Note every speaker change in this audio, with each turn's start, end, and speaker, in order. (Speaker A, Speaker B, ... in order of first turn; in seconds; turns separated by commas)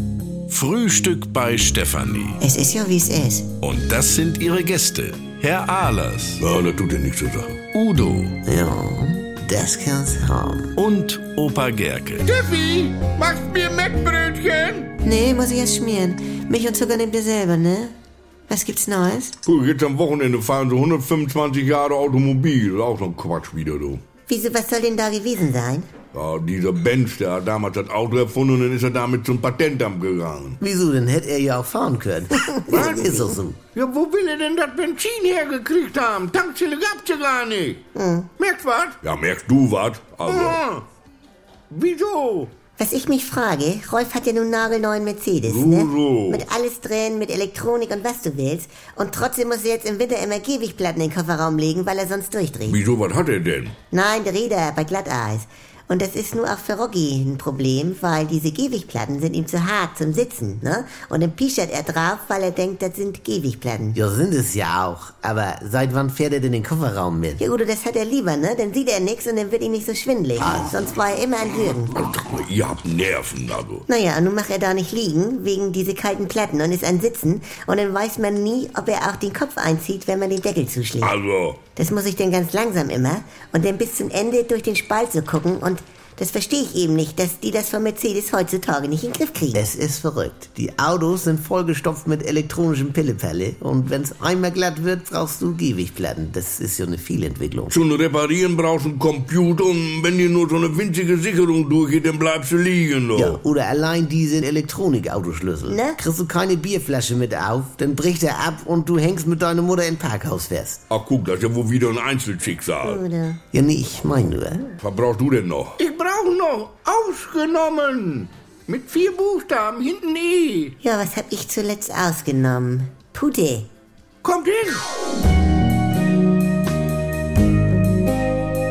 Speaker A: 0.5-2.4, Speaker B: 2.4-3.5, Speaker A: 3.6-6.4, Speaker C: 6.4-7.7, Speaker A: 7.7-8.4, Speaker D: 8.4-10.7, Speaker A: 10.8-12.4, Speaker C: 12.4-13.1, Speaker E: 12.5-14.9, Speaker B: 15.0-17.9, Speaker B: 18.5-19.4, Speaker C: 19.4-24.0, Speaker B: 24.3-25.9, Speaker C: 26.1-30.6, Speaker D: 30.6-33.6, Speaker B: 32.5-33.4, Speaker E: 33.8-37.8, Speaker B: 38.0-38.3, Speaker E: 38.4-38.9, Speaker C: 39.0-40.7, Speaker E: 40.3-40.6, Speaker E: 41.7-42.5, Speaker B: 42.8-52.8, Speaker C: 45.5-46.5, Speaker C: 52.7-53.8, Speaker B: 53.9-64.0, Speaker D: 64.0-67.4, Speaker B: 67.4-72.0, Speaker C: 72.0-73.8, Speaker B: 73.9-81.1, Speaker C: 81.0-81.6, Speaker B: 81.8-89.7, Speaker D: 89.5-97.7, Speaker C: 97.7-103.4, Speaker D: 103.2-110.8, Speaker B: 105.7-106.0, Speaker C: 110.9-113.0, Speaker B: 112.8-113.4, Speaker D: 113.5-114.7, Speaker C: 114.8-115.8, Speaker E: 116.0-120.7, Speaker B: 120.8-123.7, Speaker E: 124.2-124.8